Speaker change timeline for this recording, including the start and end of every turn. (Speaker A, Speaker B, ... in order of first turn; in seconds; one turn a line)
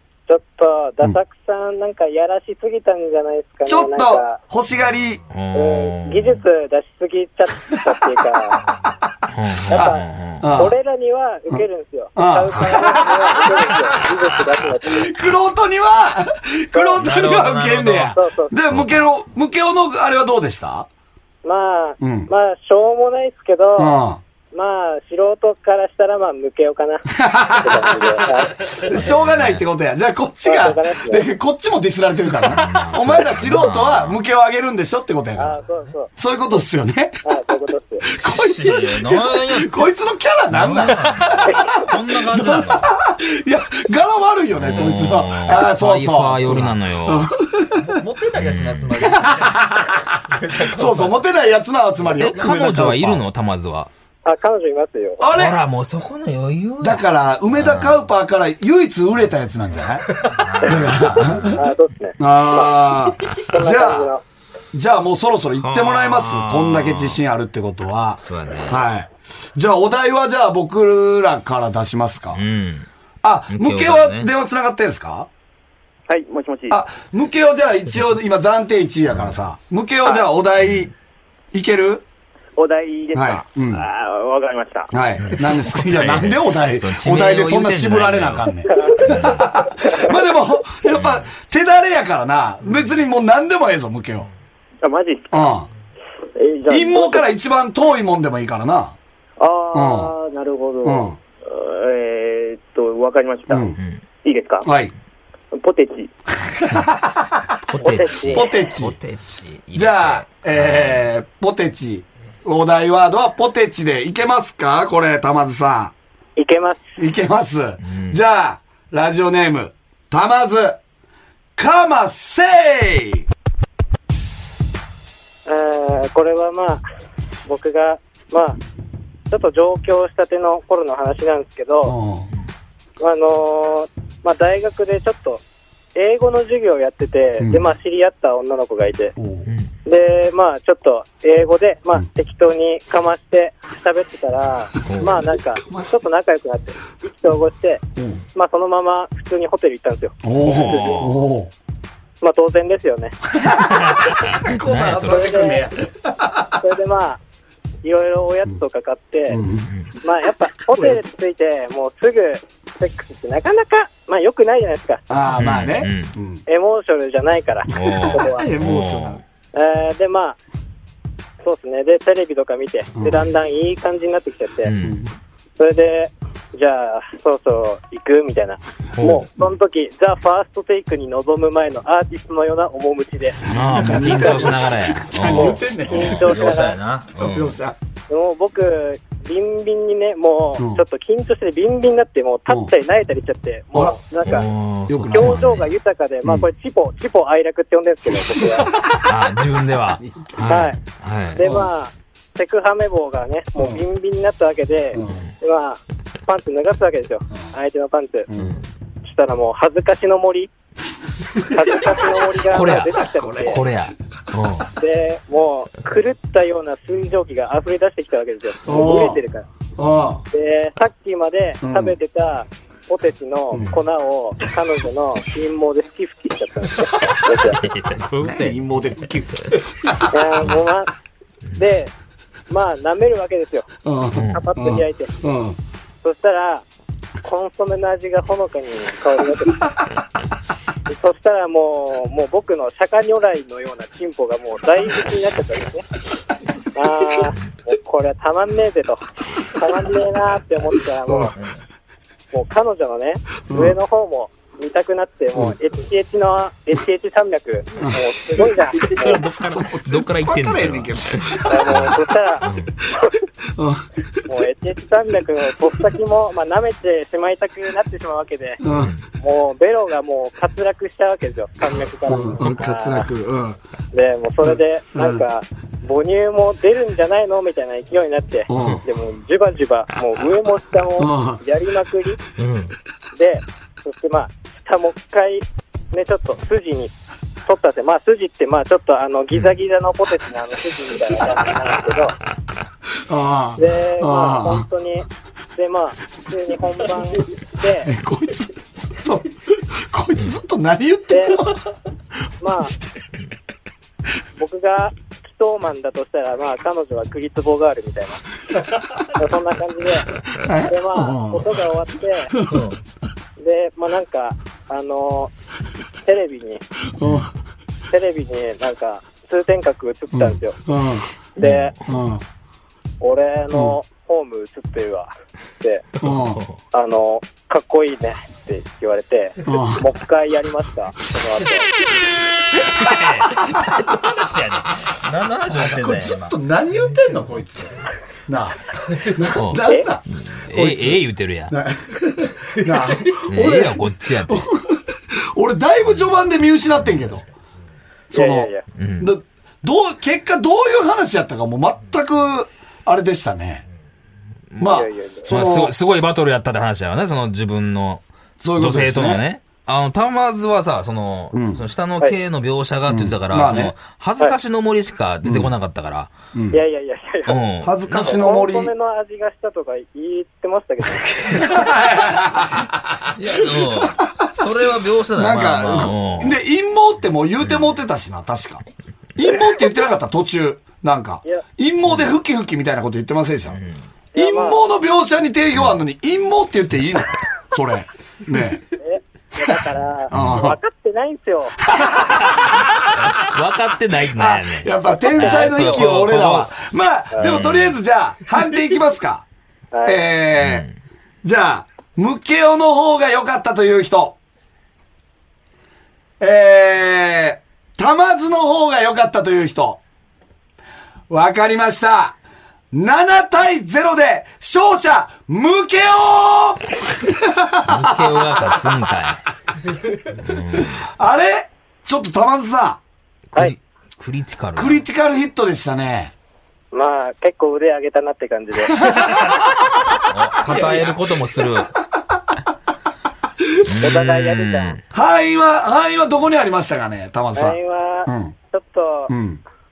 Speaker A: 0.3-4.4
Speaker B: 3.7-5.2
Speaker C: 5.3-6.4
Speaker A: 5.5-8.6
Speaker C: 9.3-10.5
Speaker B: 9.7-10.8
Speaker A: 9.7-15.1
Speaker B: 12.2-14.1
Speaker B: 14.8-20.9
Speaker A: 16.7-17.0
Speaker C: 17.0-18.2
Speaker A: 18.1-18.6
Speaker C: 18.7-19.0
Speaker A: 21.4-24.0
Speaker B: 22.0-22.3
Speaker B: 23.8-24.2
Speaker A: 24.5-28.8
Speaker B: 27.1-35.6
Speaker C: 28.9-29.6
Speaker A: 30.4-31.3
Speaker C: 32.5-34.2
Speaker A: 35.4-36.1
Speaker B: 36.1-37.2
Speaker A: 37.2-38.1
Speaker B: 38.0-48.0
Speaker C: 38.2-39.8
Speaker C: 40.5-42.9
Speaker C: 44.5-47.3
Speaker D: 47.8-49.8
Speaker C: 48.3-49.0
Speaker B: 49.0-53.2
Speaker D: 50.3-51.2
Speaker C: 52.2-53.9
Speaker A: 54.2-55.2
Speaker B: 55.2-55.6
Speaker C: 55.3-57.0
Speaker B: 56.8-61.6
Speaker C: 57.5-58.0
Speaker C: 60.3-61.6
Speaker A: 61.5-62.8
Speaker B: 62.2-64.1
Speaker A: 63.5-64.2
Speaker B: 64.7-72.4
Speaker C: 65.6-67.2
Speaker C: 68.2-68.8
Speaker C: 72.3-72.9
Speaker B: 73.2-75.3
Speaker C: 73.5-74.3
Speaker E: 76.1-76.8
Speaker B: 76.7-80.9
Speaker C: 80.6-80.9
Speaker B: 81.5-82.0
Speaker E: 82.6-84.9
Speaker B: 83.1-83.9
Speaker B: 84.9-94.3
Speaker C: 85.3-89.5
Speaker C: 90.9-91.2
Speaker E: 94.8-95.5
Speaker B: 95.3-95.7
Speaker E: 96.4-97.3
Speaker B: 96.7-99.0
Speaker E: 99.4-103.7
Speaker B: 99.7-100.1
Speaker B: 100.8-101.2
Speaker B: 103.5-103.8
Speaker E: 104.2-104.7
Speaker B: 104.6-104.9
Speaker E: 105.5-106.1
Speaker B: 106.4-107.5
Speaker C: 107.7-111.0
Speaker A: 107.8-108.7
Speaker B: 108.2-109.0
Speaker B: 109.7-115.9
Speaker A: 116.4-116.9
Speaker B: 117.0-120.8
Speaker C: 117.8-118.2
Speaker B: 121.6-123.3
Speaker A: 125.5-126.8
Speaker A: 127.5-128.6
Speaker A: 129.3-131.9
Speaker B: 131.8-132.3
Speaker A: 133.0-135.4
Speaker A: 135.9-139.1
Speaker B: 137.4-137.7
Speaker B: 139.2-139.5
Speaker C: 139.5-139.7
Speaker A: 139.8-147.8
Speaker C: 144.8-145.2
Speaker B: 144.9-145.9
Speaker B: 148.0-148.2
Speaker A: 148.3-151.0
Speaker B: 150.2-151.5
Speaker C: 150.4-151.2
Speaker A: 152.2-153.2
Speaker B: 153.3-156.6
Speaker C: 153.5-155.2
Speaker A: 155.0-155.7
Speaker A: 156.6-157.2
Speaker A: 157.8-159.4
Speaker B: 159.3-159.7
Speaker A: 160.0-165.1
Speaker B: 160.8-161.0
Speaker B: 165.1-166.4
Speaker C: 165.3-166.2
Speaker A: 166.5-168.5
Speaker B: 167.7-169.2
Speaker C: 167.7-169.2
Speaker A: 169.5-170.4
Speaker A: 171.4-174.7
Speaker B: 172.9-173.3
Speaker C: 174.7-175.0
Speaker B: 174.8-175.1
Speaker A: 175.6-184.6
Speaker C: 179.0-179.3
Speaker C: 183.4-187.6
Speaker B: 183.5-186.6
Speaker A: 185.2-186.8
Speaker B: 187.2-187.8
Speaker A: 188.1-194.5
Speaker B: 190.6-190.8
Speaker C: 194.3-195.7
Speaker B: 194.9-195.4
Speaker A: 195.1-198.7
Speaker B: 198.3-198.9
Speaker C: 199.0-201.4
Speaker B: 200.0-200.6
Speaker A: 200.5-200.8
Speaker A: 201.3-208.3
Speaker B: 201.4-201.7
Speaker B: 203.6-203.8
Speaker B: 204.9-205.2
Speaker B: 208.3-208.6
Speaker A: 209.0-210.5
Speaker A: 211.4-213.6
Speaker C: 212.5-214.7
Speaker B: 213.1-213.7
Speaker A: 214.8-219.5
Speaker B: 218.7-219.2
Speaker B: 219.8-220.2
Speaker A: 220.3-227.6
Speaker B: 221.6-222.0
Speaker B: 223.5-223.8
Speaker C: 227.4-228.6
Speaker B: 228.2-229.9
Speaker A: 230.1-230.9
Speaker A: 231.6-231.9
Speaker A: 232.5-233.7
Speaker B: 233.8-235.6
Speaker C: 234.1-234.4
Speaker A: 234.3-235.2
Speaker A: 236.0-236.7
Speaker A: 237.2-239.7
Speaker A: 240.9-245.9
Speaker A: 246.7-251.4
Speaker B: 251.1-251.3
Speaker A: 252.3-259.2
Speaker B: 253.5-253.8
Speaker B: 257.8-262.0
Speaker C: 259.0-262.7
Speaker A: 261.5-262.5
Speaker B: 263.6-263.9
Speaker A: 264.3-268.6
Speaker B: 268.6-268.9
Speaker C: 268.7-269.0
Speaker A: 269.2-273.1
Speaker B: 272.1-273.6
Speaker A: 273.9-282.2
Speaker B: 274.4-275.2
Speaker B: 278.5-278.8
Speaker B: 281.0-281.4
Speaker C: 282.4-282.8
Speaker A: 283.1-286.9
Speaker A: 287.5-292.2
Speaker B: 293.1-294.6
Speaker A: 293.6-297.9
Speaker B: 297.8-301.6
Speaker A: 301.1-301.4
Speaker A: 302.4-302.8
Speaker B: 302.5-303.0
Speaker A: 304.4-308.2
Speaker A: 309.1-310.1
Speaker B: 310.3-311.6
Speaker A: 310.7-312.4
Speaker B: 312.3-312.7
Speaker C: 312.5-312.8
Speaker A: 313.4-315.3
Speaker A: 316.0-316.6
Speaker B: 316.9-317.3
Speaker A: 317.9-320.6
Speaker B: 320.1-321.1
Speaker A: 321.4-321.8
Speaker C: 321.4-321.9
Speaker B: 321.9-322.2
Speaker A: 323.0-325.1
Speaker B: 323.5-323.8
Speaker B: 326.0-326.4
Speaker C: 326.0-326.5
Speaker A: 326.7-331.7
Speaker B: 329.4-329.8
Speaker C: 332.6-336.3
Speaker B: 335.5-347.2
Speaker C: 339.3-341.6
Speaker C: 343.3-344.5
Speaker B: 348.1-353.6
Speaker A: 348.1-348.6
Speaker C: 348.8-349.1
Speaker C: 354.5-358.1
Speaker B: 354.6-355.8
Speaker A: 354.6-355.3
Speaker B: 358.4-359.2
Speaker C: 358.6-366.1
Speaker B: 361.3-361.6
Speaker B: 362.9-363.7
Speaker B: 365.2-365.5
Speaker B: 366.3-366.6
Speaker A: 366.5-367.4
Speaker C: 367.3-368.2
Speaker B: 367.6-368.7
Speaker A: 367.9-371.7
Speaker B: 371.2-374.4
Speaker C: 373.1-376.4
Speaker B: 375.1-378.6
Speaker B: 379.2-383.6
Speaker C: 383.5-383.8
Speaker A: 384.1-384.6
Speaker B: 384.1-388.6
Speaker A: 388.8-391.6
Speaker B: 389.5-390.6
Speaker C: 390.1-390.4
Speaker B: 391.7-393.1
Speaker C: 392.3-396.6
Speaker B: 394.1-399.3
Speaker A: 395.0-395.7
Speaker C: 397.2-397.8
Speaker A: 399.7-400.0
Speaker B: 399.9-400.7
Speaker C: 400.4-400.8
Speaker B: 401.2-404.2
Speaker B: 406.2-409.8
Speaker B: 411.1-412.2
Speaker B: 412.7-418.5
Speaker C: 417.6-419.2
Speaker C: 420.1-420.9
Speaker B: 420.5-422.8
Speaker C: 423.3-424.8
Speaker B: 424.6-426.1
Speaker A: 426.7-429.1
Speaker B: 428.9-429.5
Speaker C: 430.1-431.7
Speaker B: 430.4-431.0
Speaker C: 433.6-434.8
Speaker A: 433.8-434.8
Speaker B: 434.9-438.4
Speaker A: 437.4-439.1
Speaker B: 439.1-439.4